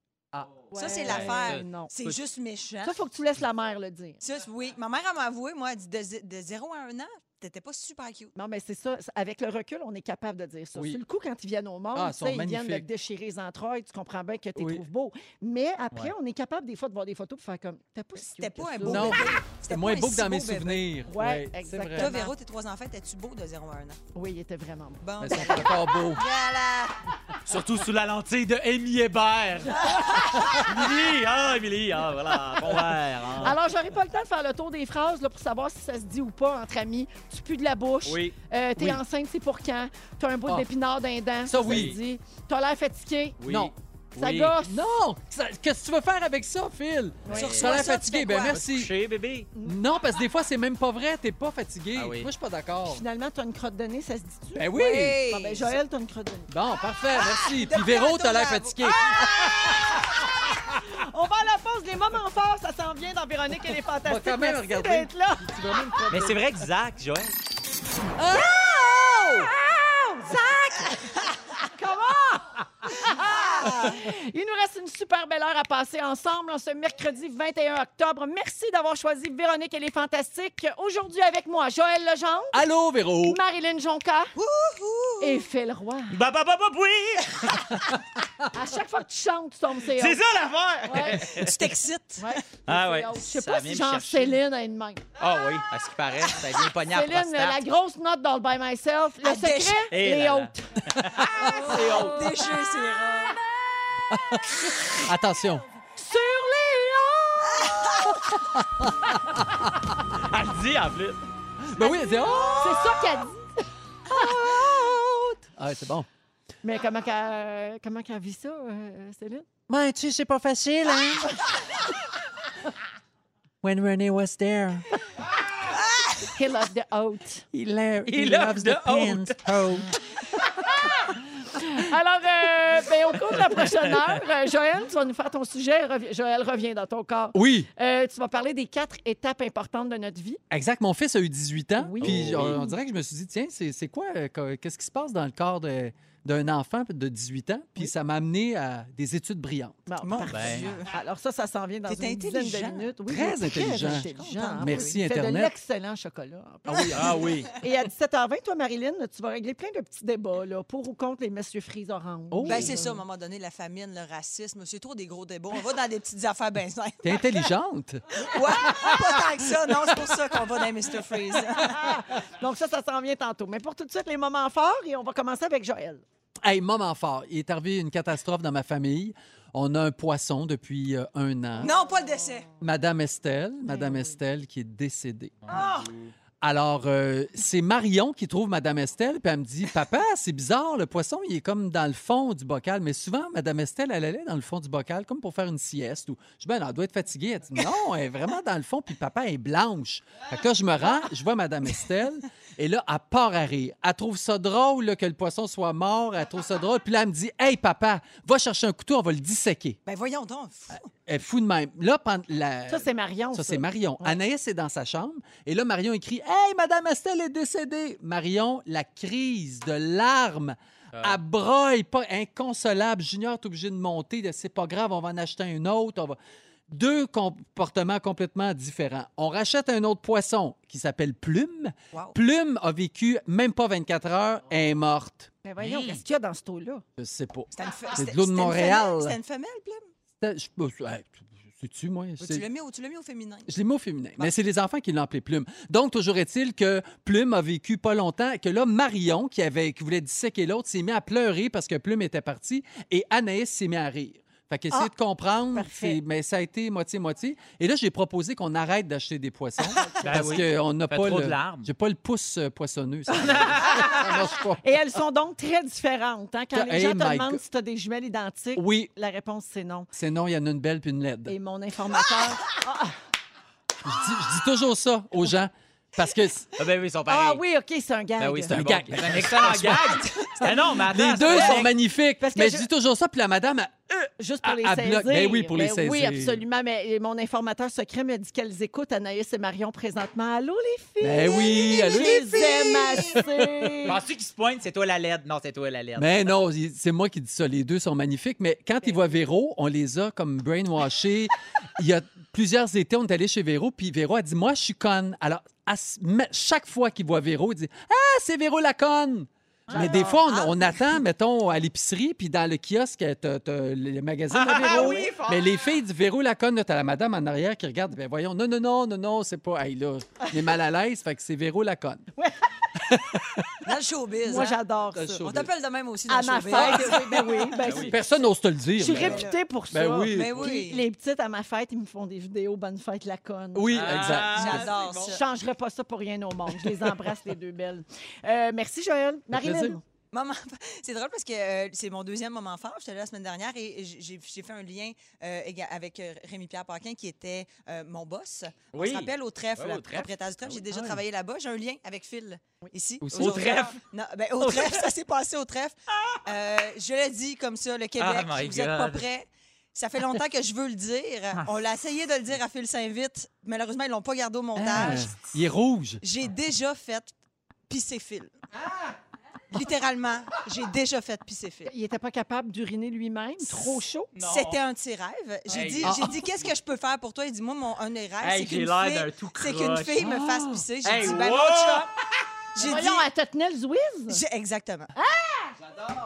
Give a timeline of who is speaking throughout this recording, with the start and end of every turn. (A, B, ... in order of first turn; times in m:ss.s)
0:00.3-0:00.6 A
0:00.7-0:01.9 B
0:00.8-0:03.0 C
0:01.0-0:02.1 D
0:02.8-0:04.2 B
0:04.2-0:08.3 C
0:08.4-0:19.3 B
0:10.8-0:11.0 A
0:12.0-0:12.9 A
0:14.6-0:14.8 A
0:18.2-0:20.8 C
0:18.8-0:22.1 A
0:21.1-0:22.3 B
0:22.0-0:24.0 C
0:24.2-0:25.6 B
0:25.0-0:27.0 C
0:25.2-0:26.3 A
0:27.5-0:33.6 D
0:29.8-0:30.4 C
0:33.4-0:43.4 B
0:38.1-0:38.4 D
0:41.5-0:42.0 A
0:41.6-0:42.0 D
0:43.4-0:44.5 D
0:43.5-0:43.7 A
0:44.2-0:44.8 B
0:44.6-0:48.9 A
0:47.3-0:47.9 D
0:47.3-0:48.6 C
0:48.5-0:49.5 D
0:49.6-0:53.0 A
0:52.0-0:52.3 D
0:52.9-0:56.5 B
0:54.6-0:55.2 A
0:54.7-0:55.8 C
0:56.5-1:00.0 A
0:57.2-0:59.7 C
0:58.9-1:06.0 B
1:04.0-1:06.4 A
1:06.1-1:07.3 D
1:08.2-1:09.5 A
1:08.3-1:08.7 B
1:09.2-1:11.2 B
1:11.7-1:22.6 B
1:13.4-1:13.9 C
1:22.5-1:23.4 A
1:23.2-1:24.4 B
1:24.4-1:25.5 C
1:25.2-1:26.2 B
1:26.1-1:28.0 D
1:28.5-1:30.2 B
1:29.9-1:31.7 D
1:30.9-1:31.3 B
1:31.3-1:32.2 C
1:32.2-1:35.0 B
1:32.7-1:34.4 D
1:35.2-1:37.6 D
1:36.9-1:42.2 B
1:39.2-1:39.9 C
1:39.9-1:42.4 D
1:41.2-1:41.5 A
1:41.4-1:43.4 C
1:44.1-1:45.6 A
1:46.0-1:48.1 B
1:47.5-1:48.2 C
1:48.2-1:49.9 A
1:50.1-1:51.2 D
1:51.6-1:52.8 A
1:51.9-1:53.5 B
1:52.2-1:53.1 C
1:54.1-1:56.1 A
1:56.6-1:59.5 B
1:59.7-2:01.7 A
2:03.6-2:04.8 A
2:06.2-2:07.5 B
2:07.5-2:10.0 A
2:08.1-2:09.6 D
2:11.5-2:20.4 B
2:17.3-2:17.7 A
2:20.5-2:29.8 A
2:21.8-2:22.7 B
2:22.0-2:22.6 D
2:29.9-2:43.0 B
2:30.0-2:30.9 C
2:30.3-2:30.7 D
2:31.9-2:32.9 C
2:33.1-2:35.5 A
2:33.7-2:35.0 C
2:36.7-2:37.2 A
2:36.9-2:37.5 D
2:42.3-2:42.8 A
2:42.4-2:47.5 C
2:47.0-2:50.0 A
2:48.2-2:51.9 C
2:51.6-2:56.0 B
2:56.4-3:01.7 A
3:01.6-3:02.5 C
3:02.6-3:05.5 A
3:03.7-3:04.0 B
3:05.5-3:05.9 D
3:05.5-3:05.9 C
3:06.4-3:29.8 A
3:29.9-3:30.9 C
3:30.7-3:46.2 A
3:32.7-3:34.2 B
3:40.9-3:41.2 D
3:46.7-3:55.3 A
3:55.4-3:56.8 B
3:55.6-3:56.0 D
3:57.0-3:59.2 A
3:57.5-3:59.9 C
4:00.2-4:02.4 A
4:02.2-4:03.5 C
4:03.5-4:24.8 A
4:15.5-4:16.0 B
4:19.8-4:20.3 B
4:20.0-4:21.7 D
4:23.2-4:24.0 D
4:23.2-4:29.9 B
4:26.5-4:27.4 A
4:28.6-4:28.9 A
4:29.9-4:31.4 A
4:31.3-4:33.0 B
4:33.8-4:36.5 A
4:36.6-4:37.4 D
4:37.1-4:38.5 B
4:38.2-4:41.7 D
4:38.5-4:46.4 A
4:42.2-4:42.7 B
4:44.2-4:54.0 B
4:51.0-4:53.9 A
4:51.9-4:53.1 C
4:53.9-4:56.3 D
4:56.0-5:22.1 A
5:09.7-5:10.0 D
5:09.7-5:11.0 C
5:14.3-5:15.5 D
5:14.7-5:15.2 C
5:22.2-5:22.7 B
5:22.8-5:23.6 A
5:23.6-5:24.6 C
5:24.2-5:25.3 B
5:24.9-5:25.5 A
5:25.2-5:27.6 C
5:26.1-5:28.1 B
5:26.7-5:27.0 A
5:27.6-5:27.9 D
5:27.9-5:30.5 A
5:28.8-5:34.1 B
5:28.8-5:29.4 C
5:30.1-5:30.8 C
5:33.6-5:34.7 A
5:33.7-5:35.2 D
5:34.1-5:35.2 C
5:35.1-5:39.8 B
5:36.6-5:37.1 A
5:39.3-5:39.8 A
5:40.1-6:05.2 C
5:48.7-5:50.6 D
5:50.7-5:51.0 A
5:53.0-5:53.4 A
5:53.2-5:53.8 D
5:54.4-5:54.9 D
5:58.0-5:59.0 D
6:04.6-6:06.0 A
6:06.0-6:07.1 C
6:07.7-6:08.4 C
6:09.5-6:11.7 C
6:11.7-6:14.1 B
6:14.2-6:14.6 D
6:14.2-6:21.9 C
6:15.5-6:16.3 D
6:15.8-6:16.2 A
6:18.2-6:20.1 D
6:20.0-6:20.6 A
6:20.8-6:21.9 D
6:22.6-6:23.1 C
6:22.6-6:24.2 B
6:24.1-6:24.9 C
6:25.0-6:25.6 B